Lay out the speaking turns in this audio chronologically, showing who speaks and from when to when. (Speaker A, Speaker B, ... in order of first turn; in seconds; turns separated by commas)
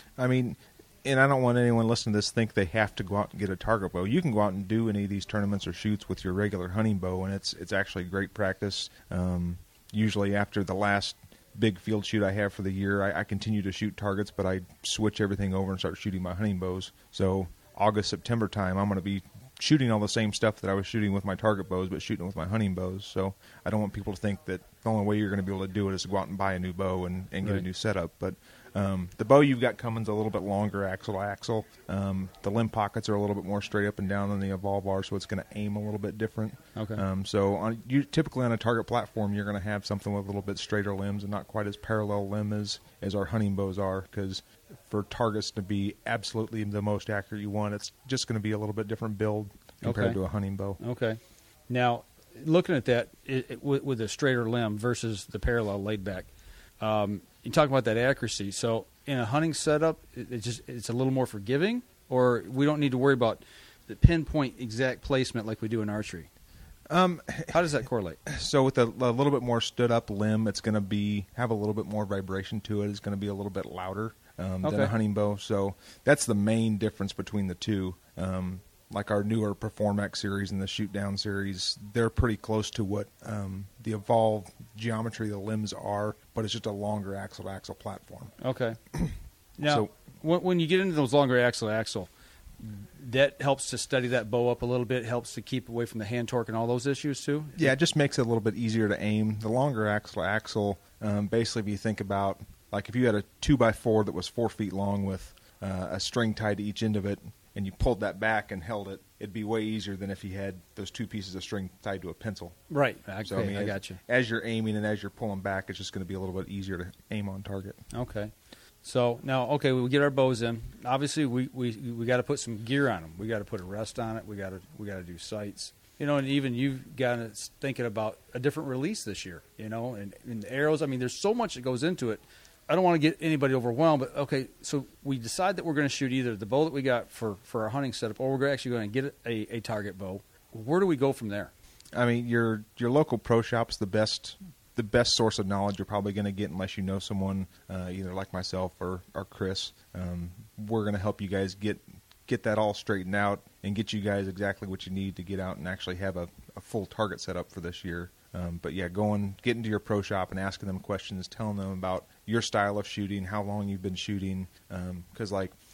Speaker A: 0.2-50.8, Speaker B: 36.8-37.0, Speaker B: 49.8-50.2, Speaker B: 50.8-56.3, Speaker B: 56.8-66.3, Speaker A: 66.9-88.3, Speaker B: 67.5-68.2, Speaker B: 74.6-74.9, Speaker B: 88.4-88.8, Speaker B: 89.6-92.1, Speaker A: 89.6-89.9, Speaker B: 92.6-97.7, Speaker A: 97.6-112.6, Speaker B: 112.7-114.0, Speaker A: 113.2-117.8, Speaker B: 117.9-118.3, Speaker B: 118.8-141.5, Speaker A: 141.9-165.6